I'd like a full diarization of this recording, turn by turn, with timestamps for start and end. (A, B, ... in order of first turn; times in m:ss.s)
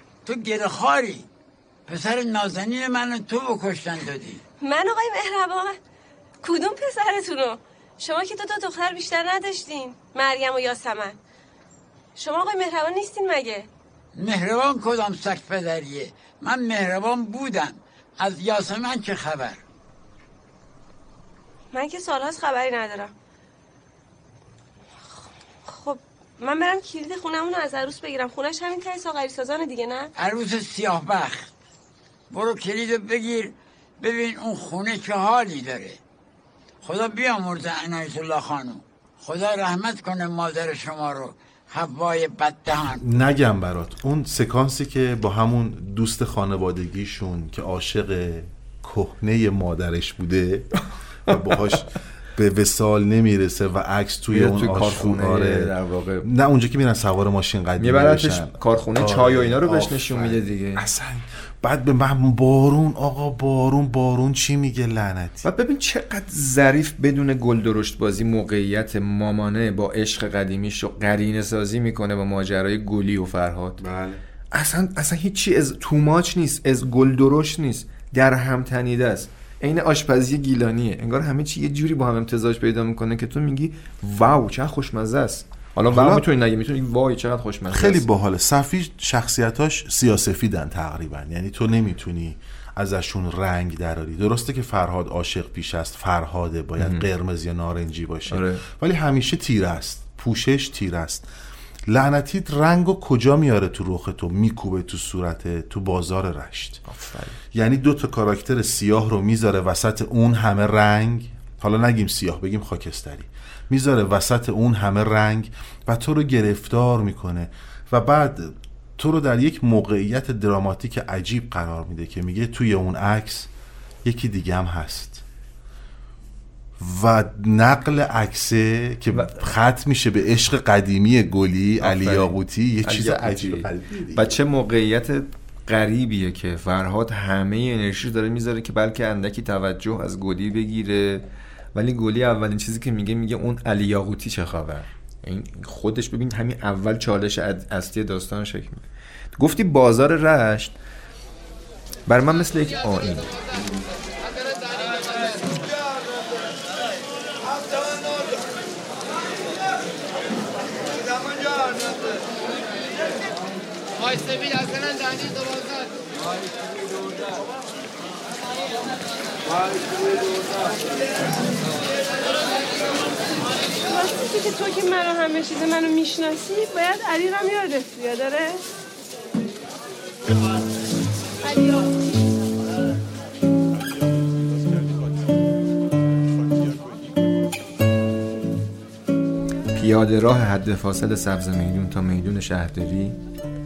0:00.2-0:01.3 A
0:01.9-0:04.4 A
0:04.6-0:05.8 B
0:06.4-0:11.2 B
0:12.2-0:13.7 B
0:14.2-0:19.6 A
0:21.7-0:23.1 B
0:25.2-0:30.1 B
0:30.2-0:31.5 A
0:32.3-0:36.0 A
0:36.8-0:43.0 A
0:42.8-0:50.7 C
0:51.3-1:05.5 C
0:54.3-0:56.3 D
0:57.8-1:00.8 D
1:05.4-1:13.8 D
1:13.8-1:14.2 C
1:14.5-1:28.0 D
1:25.9-1:26.2 C
1:27.7-1:41.3 C
1:36.8-1:37.0 D
1:38.3-1:38.6 D
1:41.9-1:46.8 C
1:46.8-1:47.4 D
1:47.5-2:03.5 C
2:04.0-2:05.2 C
2:06.8-2:14.3 C
2:11.8-2:12.3 D
2:12.8-2:21.2 D
2:21.7-2:28.8 D
2:29.4-2:30.8 D
2:32.1-2:33.4 D
2:53.7-2:58.6 B
3:09.7-3:13.2 D